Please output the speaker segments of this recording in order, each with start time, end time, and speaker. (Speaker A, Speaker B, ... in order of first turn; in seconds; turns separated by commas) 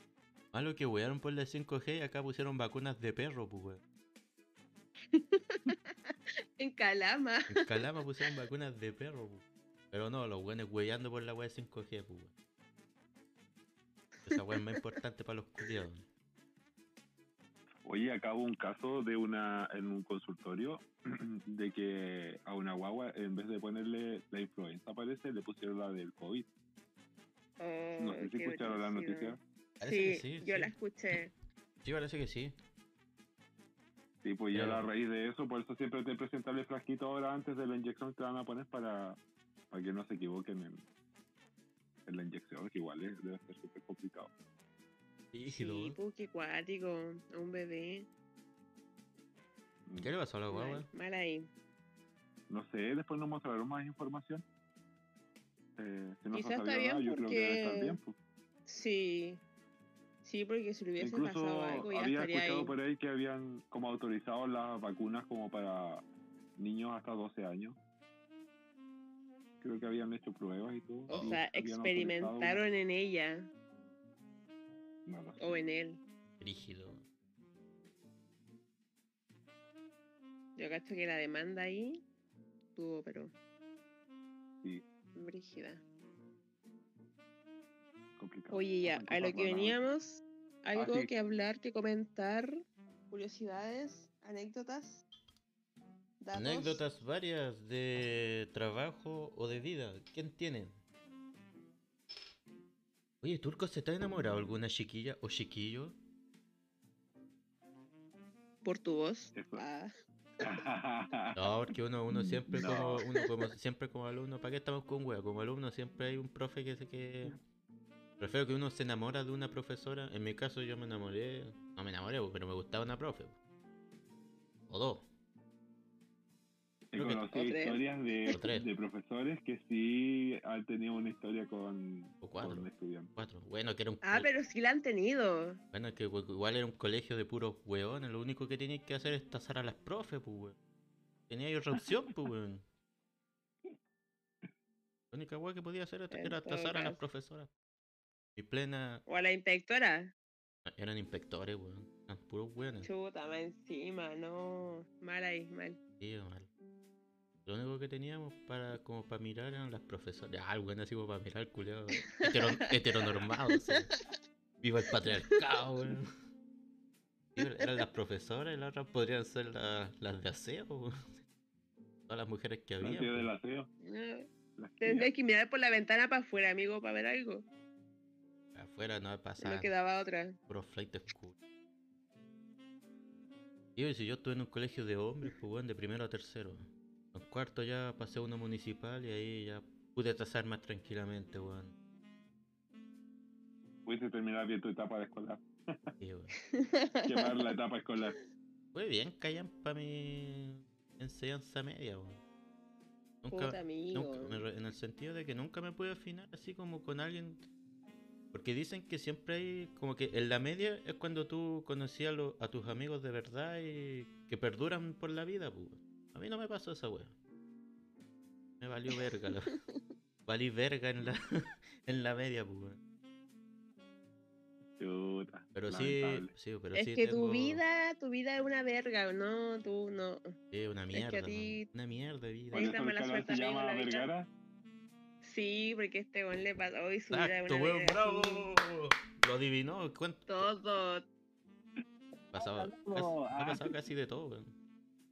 Speaker A: 0.5-3.8, Speaker B: 5.1-5.9, Speaker B: 6.6-7.8, Speaker A: 7.5-12.3, Speaker A: 14.2-16.0, Speaker B: 14.3-14.8, Speaker C: 17.8-26.5, Speaker B: 27.6-31.3, Speaker C: 28.0-29.4, Speaker A: 29.8-31.2, Speaker A: 31.8-32.5, Speaker C: 34.2-39.2, Speaker A: 34.5-34.8, Speaker C: 39.7-40.8, Speaker C: 42.0-44.3, Speaker A: 45.3-46.0, Speaker B: 45.6-48.1, Speaker A: 50.0-50.9, Speaker B: 50.5-51.5, Speaker C: 52.5-54.4, Speaker C: 55.8-58.1, Speaker B: 56.3-58.0, Speaker B: 58.7-59.4, Speaker B: 60.2-62.7, Speaker C: 61.0-66.0, Speaker C: 66.6-67.8, Speaker C: 69.6-72.6, Speaker A: 71.1-71.4, Speaker B: 71.1-73.5, Speaker C: 75.0-75.5, Speaker B: 75.4-76.0, Speaker A: 76.4-77.0, Speaker B: 80.6-82.0, Speaker B: 82.8-83.3, Speaker B: 85.1-85.8, Speaker C: 88.2-89.8, Speaker B: 88.5-92.5, Speaker C: 90.7-91.1, Speaker B: 93.1-95.0, Speaker B: 96.2-96.8, Speaker A: 96.3-100.7, Speaker A: 103.2-106.0, Speaker B: 108.6-109.9, Speaker C: 109.3-109.6, Speaker C: 110.4-111.4, Speaker A: 111.3-117.4, Speaker C: 112.1-113.0, Speaker A: 118.2-123.4, Speaker A: 124.7-125.0, Speaker C: 126.9-133.1, Speaker A: 127.0-127.3, Speaker B: 127.3-128.3, Speaker A: 128.3-128.7, Speaker A: 132.2-134.3, Speaker B: 134.0-135.6, Speaker A: 135.7-140.6, Speaker A: 141.3-142.6, Speaker A: 145.1-147.5, Speaker B: 146.1-147.0, Speaker A: 148.3-149.0, Speaker B: 149.1-150.1, Speaker A: 150.7-152.9, Speaker B: 152.8-155.8, Speaker A: 156.0-156.5, Speaker A: 157.4-163.9, Speaker B: 162.2-162.7, Speaker B: 163.6-164.0, Speaker A: 164.6-166.1, Speaker B: 165.0-165.3, Speaker A: 167.3-170.9, Speaker B: 167.4-167.8, Speaker A: 172.1-173.3, Speaker C: 172.8-173.7, Speaker B: 173.8-174.3, Speaker C: 174.6-175.1, Speaker B: 174.8-177.4, Speaker A: 178.5-179.7, Speaker B: 179.4-180.3, Speaker A: 180.5-181.3, Speaker A: 183.8-191.7, Speaker C: 193.8-195.8, Speaker A: 196.0-196.3, Speaker B: 196.5-197.3, Speaker C: 197.1-198.1, Speaker A: 198.7-202.2, Speaker A: 203.2-207.4, Speaker B: 203.3-204.4, Speaker A: 208.3-217.1, Speaker A: 218.6-219.6, Speaker B: 218.9-219.8, Speaker A: 220.2-222.8, Speaker C: 224.8-226.3, Speaker A: 225.5-227.6, Speaker B: 226.7-230.2, Speaker A: 230.5-232.7, Speaker B: 230.9-231.7, Speaker B: 232.5-234.1, Speaker C: 232.5-234.3, Speaker B: 235.2-238.5, Speaker A: 237.1-240.5, Speaker B: 240.3-241.0, Speaker A: 242.3-244.5, Speaker C: 242.3-243.7